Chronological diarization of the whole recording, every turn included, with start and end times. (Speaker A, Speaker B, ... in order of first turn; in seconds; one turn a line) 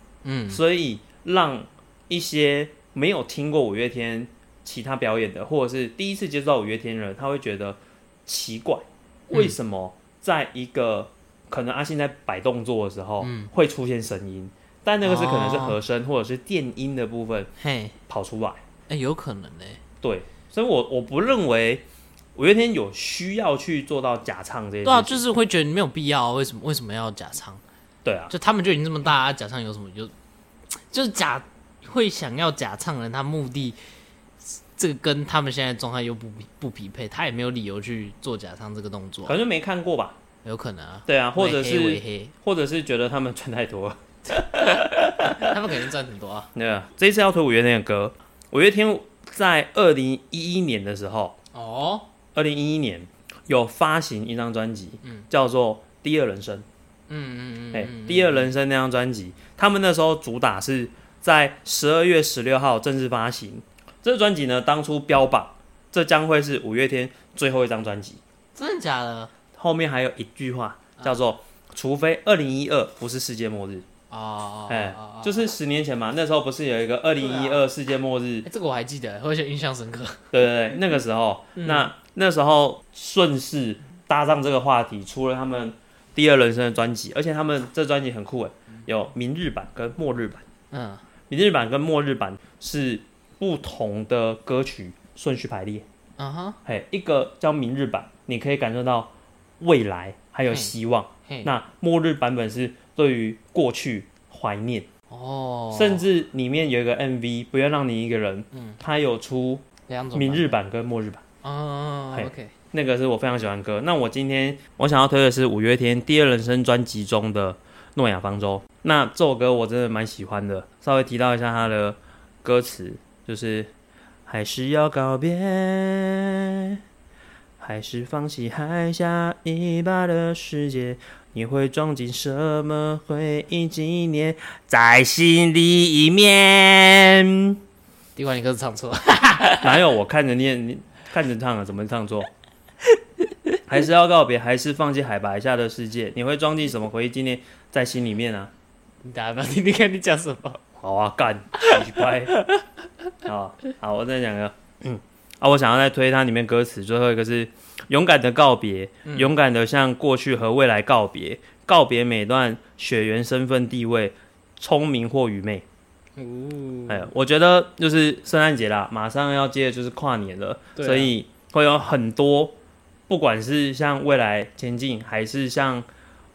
Speaker A: 0.2-0.6
Speaker B: 0.5-17.5
Speaker A: 13.2-13.5
Speaker A: 15.0-15.8
Speaker A: 17.6-18.0
Speaker B: 18.1-18.6
Speaker A: 18.9-19.8
Speaker B: 20.0-21.8
Speaker B: 22.4-25.2
Speaker A: 24.9-27.6
Speaker B: 28.0-28.3
Speaker A: 28.3-30.1
Speaker A: 30.8-33.8
Speaker A: 34.5-39.4
Speaker B: 39.2-40.2
Speaker A: 40.4-42.3
Speaker B: 41.1-45.5
Speaker A: 45.2-46.5
Speaker B: 46.5-51.4
Speaker A: 51.5-52.1
Speaker B: 52.3-56.7
Speaker A: 57.1-58.5
Speaker B: 57.7-68.2
Speaker A: 68.5-69.3
Speaker B: 69.5-73.9
Speaker A: 74.1-75.4
Speaker B: 74.7-78.5
Speaker A: 77.2-77.6
Speaker A: 78.5-80.3
Speaker B: 80.3-90.5
Speaker A: 81.6-81.9
Speaker A: 90.7-91.0
Speaker B: 91.3-95.8
Speaker A: 96.2-96.6
Speaker B: 96.7-104.9
Speaker A: 100.5-100.7
Speaker A: 101.3-101.5
Speaker A: 105.1-106.0
Speaker B: 105.7-111.2
Speaker A: 108.5-108.8
Speaker A: 109.9-110.6
Speaker A: 111.4-112.5
Speaker B: 112.1-123.7
Speaker B: 124.3-126.8
Speaker B: 127.6-137.6
Speaker A: 138.2-139.8
Speaker B: 139.6-142.3
Speaker B: 143.7-148.5
Speaker A: 149.0-150.6
Speaker B: 150.8-152.4
Speaker B: 153.2-165.7
Speaker A: 159.1-159.3
Speaker A: 166.2-167.1
Speaker B: 166.9-172.6
Speaker A: 170.8-171.1
Speaker B: 173.1-175.9